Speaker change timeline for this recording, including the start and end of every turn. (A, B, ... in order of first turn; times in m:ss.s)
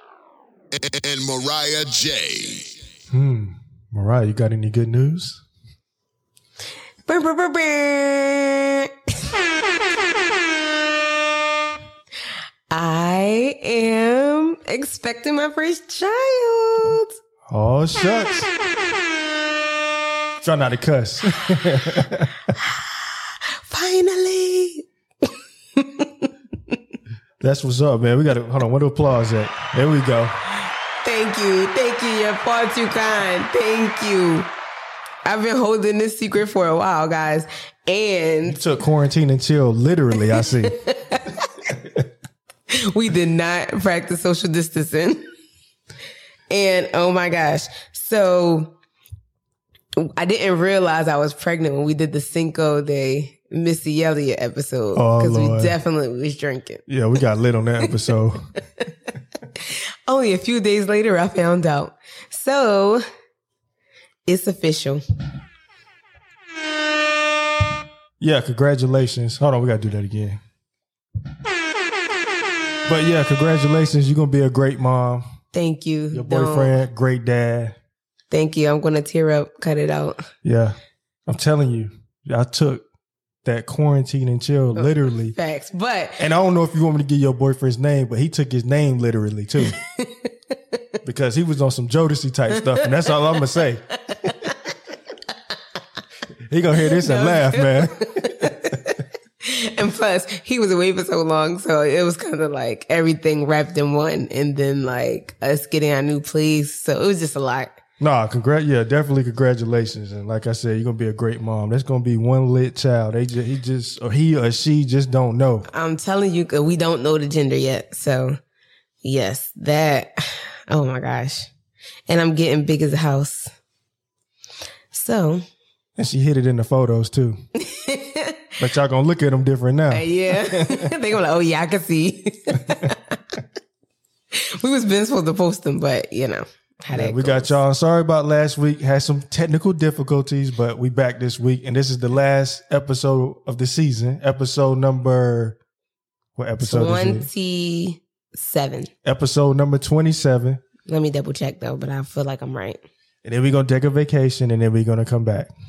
0:00.7-0:02.7 A
0:03.1-0:05.4 B
0:07.1-0:09.3 C
0:12.7-0:17.1 C
0:17.5-0:18.5 B
0:20.4-0:22.5 B
0:22.5-0:24.9 C
0:25.8-0:26.8 C
0:27.4-0:30.4 B
0:31.0-0:34.5 C
0:35.2-0:38.6 C
0:38.5-0:40.8 B
0:40.3-0:41.5 C
0:42.7-0:45.3 C
0:46.5-0:48.7 C
0:50.0-0:56.8 C
0:55.0-0:55.8 B
0:56.9-0:58.4 B
0:59.5-1:03.0 C
1:04.3-1:05.0 C
1:08.2-1:10.4 B
1:12.9-1:15.3 B
1:15.5-1:16.8 C
1:16.1-1:17.8 B
1:18.3-1:20.3 C
1:20.4-1:22.8 B
1:23.4-1:25.3 B
1:24.8-1:26.3 C
1:26.2-1:29.8 B
1:29.6-1:30.8 C
1:31.0-1:34.5 B
1:32.6-1:33.5 C
1:34.0-1:34.6 C
1:36.5-1:38.7 B
1:36.9-1:47.7 C
1:48.0-1:55.7 B
1:55.7-1:58.4 C
1:59.0-2:01.5 C
2:02.1-2:03.5 C
2:04.9-2:05.4 C
2:06.0-2:07.4 B
2:07.6-2:08.5 C
2:08.6-2:10.9 B
2:09.9-2:13.2 C
2:14.3-2:17.6 C
2:16.9-2:25.6 B
2:26.4-2:27.3 B
2:26.6-2:28.9 C
2:29.0-2:30.6 B
2:30.8-2:32.8 C
2:33.2-2:35.5 B